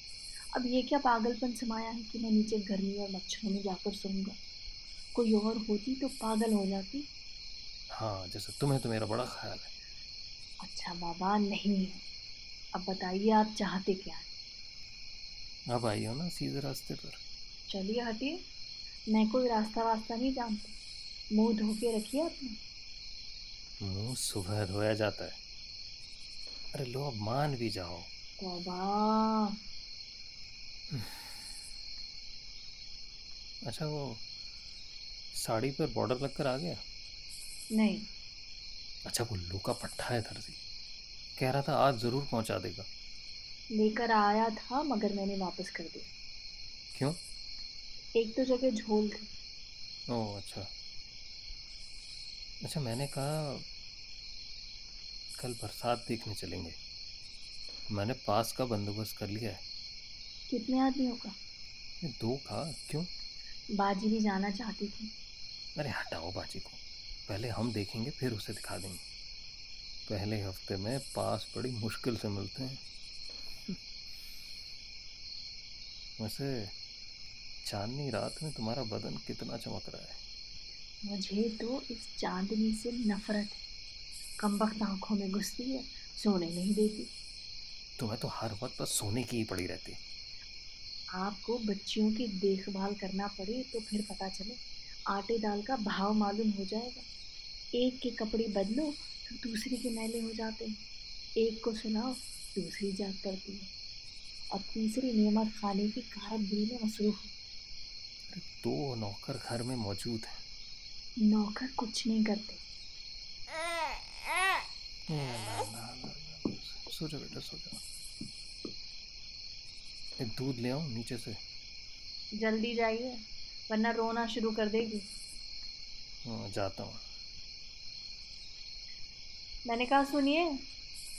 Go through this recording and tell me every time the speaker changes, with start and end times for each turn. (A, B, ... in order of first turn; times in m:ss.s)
0:00.5-0:04.4 A
0:05.1-0:07.1 A
0:07.9-0:09.7 B
0:10.6-0:12.0 A
0:12.7-0:14.3 A
0:15.7-0:17.2 B
0:17.7-0:18.4 A
0:19.1-0:20.7 A
0:21.3-0:22.6 A
0:23.8-0:25.4 B
0:26.7-0:28.1 B
0:28.4-0:29.6 A
0:30.9-0:31.2 B
0:33.7-0:34.2 B
0:35.3-0:36.8 B
0:37.7-0:38.0 A
0:39.0-0:40.6 B
0:41.4-0:42.9 B
0:43.7-0:46.1 A
0:48.2-0:49.3 A
0:50.1-0:50.7 B
0:52.6-0:53.6 B
0:55.4-0:56.8 B
0:57.9-0:59.6 B
1:00.5-1:01.3 A
1:02.0-1:03.1 B
1:03.8-1:05.1 A
1:05.8-1:09.0 B
1:10.1-1:12.8 B
1:16.2-1:16.7 B
1:17.6-1:20.2 B
1:21.0-1:23.6 A
1:24.4-1:27.1 A
1:28.0-1:30.0 B
1:31.2-1:37.0 A
1:37.8-1:40.8 A
1:41.4-1:43.7 A
1:44.5-1:47.3 A
1:48.3-1:50.4 B
1:51.2-1:52.6 A
1:55.1-1:57.8 B
2:00.2-2:01.4 B
2:02.4-2:05.0 A
2:06.2-2:07.0 B
2:09.7-2:10.5 A